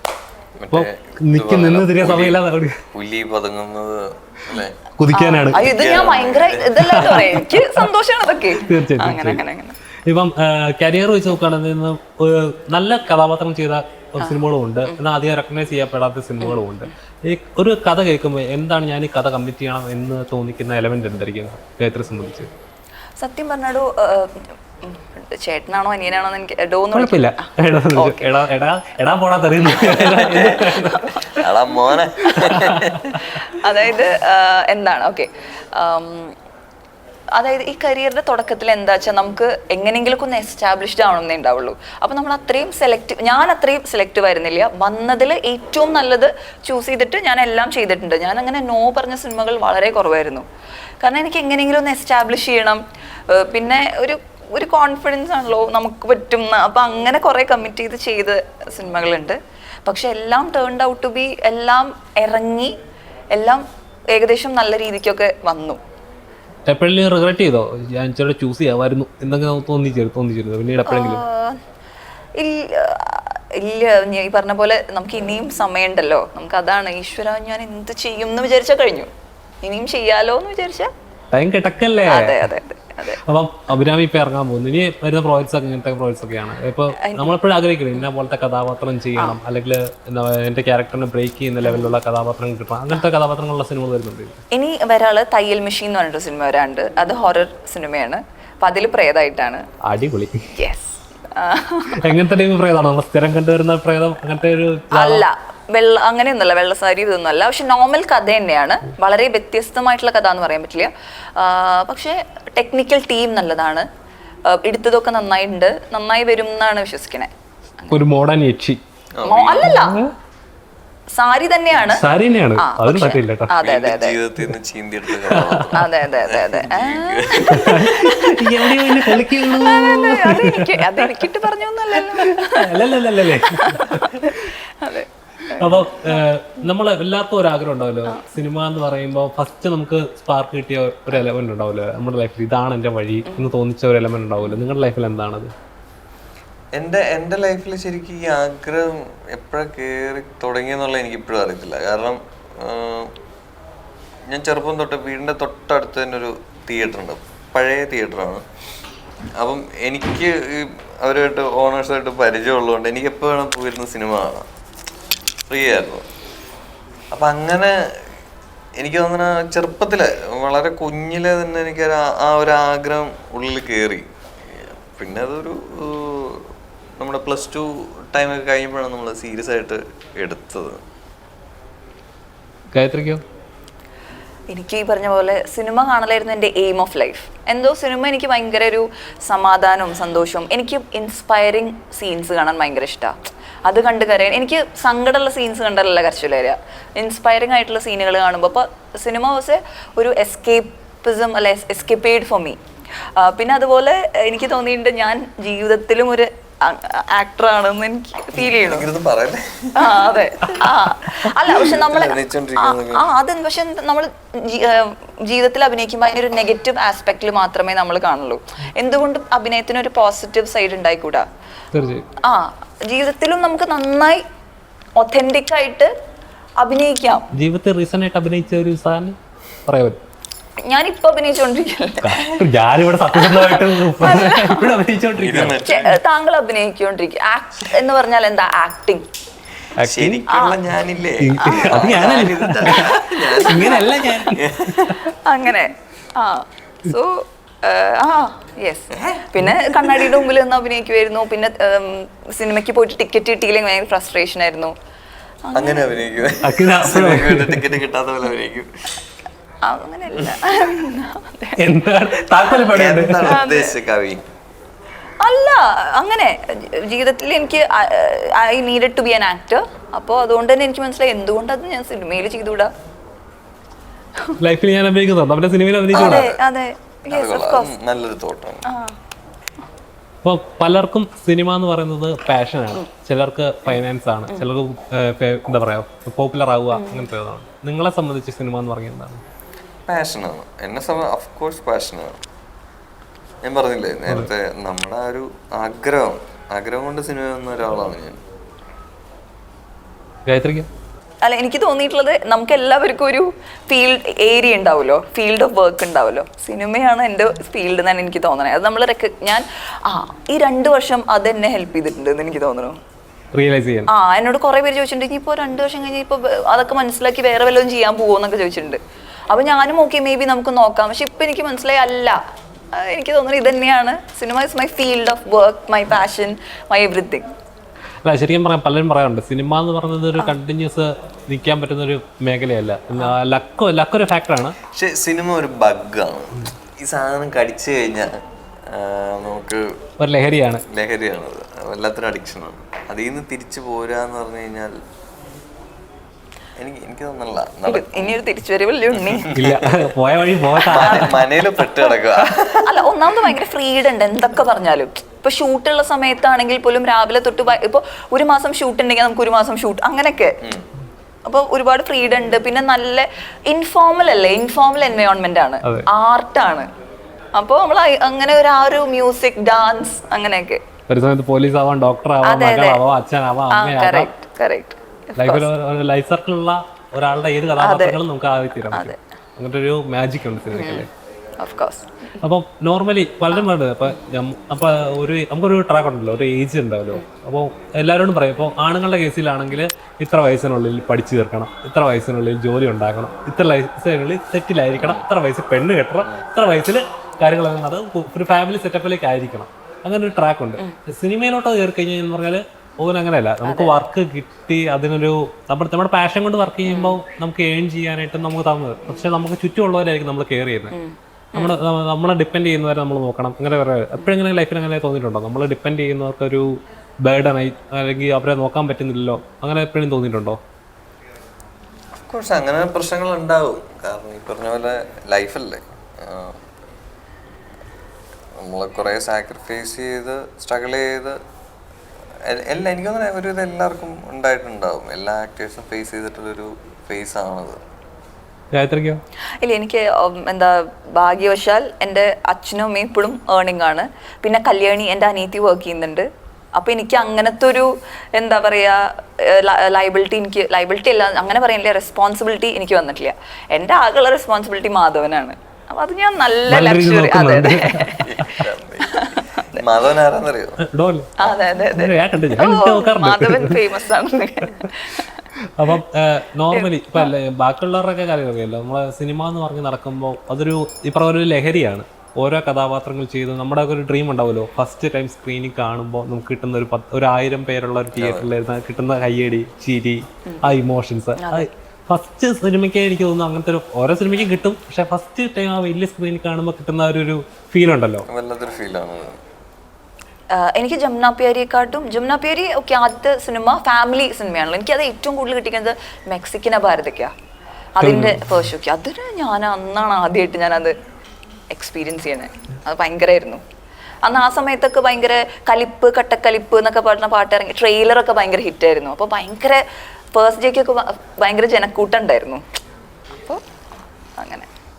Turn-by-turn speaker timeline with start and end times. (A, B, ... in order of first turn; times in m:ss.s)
0:00.6-0:02.4 A
0:00.7-0:02.8 B
0:02.9-0:04.8 A
0:05.0-0:05.6 B
0:05.1-0:09.8 C
0:05.5-0:06.8 A
0:06.8-0:07.9 B
0:08.6-0:09.4 B
0:10.1-0:22.5 B
0:14.2-0:15.0 C
0:23.2-0:28.3 C
0:26.9-0:31.3 B
0:29.8-0:33.2 A
0:29.9-0:31.2 C
0:32.2-0:32.5 C
0:32.4-0:33.4 B
0:33.5-0:36.4 C
0:37.3-0:50.4 C
0:51.0-1:02.8 C
1:03.3-1:05.8 C
1:06.7-1:11.2 B
1:10.9-1:11.6 C
1:12.4-1:19.1 C
1:19.6-1:20.9 C
1:21.3-1:22.5 B
1:22.1-1:23.2 C
1:23.2-1:34.4 B
1:27.0-1:27.3 C
1:31.6-1:31.9 C
1:34.5-1:39.6 C
1:39.8-1:40.5 B
1:40.6-1:42.1 C
1:42.0-1:45.3 B
1:44.9-1:53.9 C
1:54.5-1:58.0 C
1:57.9-1:58.8 B
1:59.2-1:59.8 A
1:59.3-2:00.0 C
1:59.6-2:00.1 B
2:01.1-2:02.1 C
2:01.9-2:03.5 B
2:02.6-2:04.2 C
2:03.6-2:08.1 A
2:05.3-2:05.8 B
2:05.7-2:16.3 C
2:07.5-2:11.3 B
2:11.9-2:14.5 B
2:15.6-2:25.5 B
2:26.8-2:33.2 A
2:34.3-2:38.4 A
2:39.4-2:44.5 A
2:45.5-2:46.1 A
2:47.1-2:48.0 A
2:48.8-3:00.8 A
3:02.7-3:03.2 B
3:04.5-3:22.6 C
3:23.2-3:28.9 C
3:28.4-3:30.7 A
3:29.8-3:41.3 C
3:31.4-3:33.1 A
3:41.7-3:42.0 B
3:42.2-3:44.2 C
3:45.0-3:45.9 C
3:46.6-3:47.3 C
3:47.3-3:50.0 B
3:50.6-3:52.4 C
3:52.0-3:55.6 B
3:53.2-3:54.8 C
3:55.2-3:56.0 A
3:55.6-3:59.1 C
3:59.8-4:00.2 B
3:59.8-4:05.1 A
4:00.3-4:00.6 C
4:01.2-4:04.7 B
4:01.4-4:01.9 C
4:03.5-4:03.9 C
4:05.1-4:14.7 C
4:08.9-4:09.3 A
4:15.4-4:15.9 C
4:15.5-4:18.7 A
4:16.4-4:17.6 B
4:19.6-4:21.6 C
4:21.6-4:23.3 B
4:22.7-4:24.2 A
4:23.2-4:23.8 C
4:25.2-4:32.7 C
4:34.4-4:36.3 B
4:35.9-4:36.4 A
4:35.9-4:37.7 C
4:37.1-4:38.7 A
4:38.7-4:39.0 C
4:40.2-4:49.2 B
4:46.7-4:47.1 C
4:49.9-4:52.2 A
4:53.4-4:58.2 A
5:00.3-5:00.7 B
5:01.2-5:12.8 C
5:13.4-5:13.9 B
5:13.9-5:22.2 C
5:22.7-5:27.3 C
5:28.0-5:34.6 B
5:34.7-5:39.8 A
5:40.0-5:40.6 B
5:40.7-5:44.8 A
5:46.6-5:48.2 A
5:47.7-5:49.3 C
5:48.9-5:49.9 A
5:49.3-5:51.1 B
5:50.6-5:52.8 A
5:50.8-6:00.4 C
6:01.3-6:06.7 C
6:07.4-6:10.6 C
6:10.9-6:14.1 B
6:12.2-6:12.8 C
6:13.5-6:15.5 C
6:15.2-6:20.9 B
6:17.6-6:18.0 C
6:18.7-6:19.0 C
6:20.5-6:20.9 C
6:21.4-6:22.2 C
6:22.2-6:50.8 B
6:43.4-6:43.8 C
6:46.7-6:47.0 C
6:50.7-6:51.6 C
6:51.4-7:00.4 B
7:02.1-7:06.4 A
7:08.4-7:11.2 A
7:12.2-7:17.6 A
7:18.5-7:19.0 B
7:19.4-7:38.1 C
7:36.5-7:38.4 B
7:37.9-7:40.6 A
7:38.8-7:39.6 C
7:40.6-7:41.1 B
7:41.2-7:45.2 C
7:41.7-7:43.6 B
7:44.4-7:44.7 B
7:45.4-8:08.1 B
7:46.5-7:47.1 C
7:58.0-7:58.3 A
8:00.3-8:00.5 C
8:01.2-8:01.5 C
8:08.1-8:09.2 A
8:10.3-8:17.1 C
8:17.8-8:20.7 C
8:17.8-8:18.2 B
8:21.5-8:23.4 C
8:24.0-8:32.4 C
8:34.2-8:34.5 C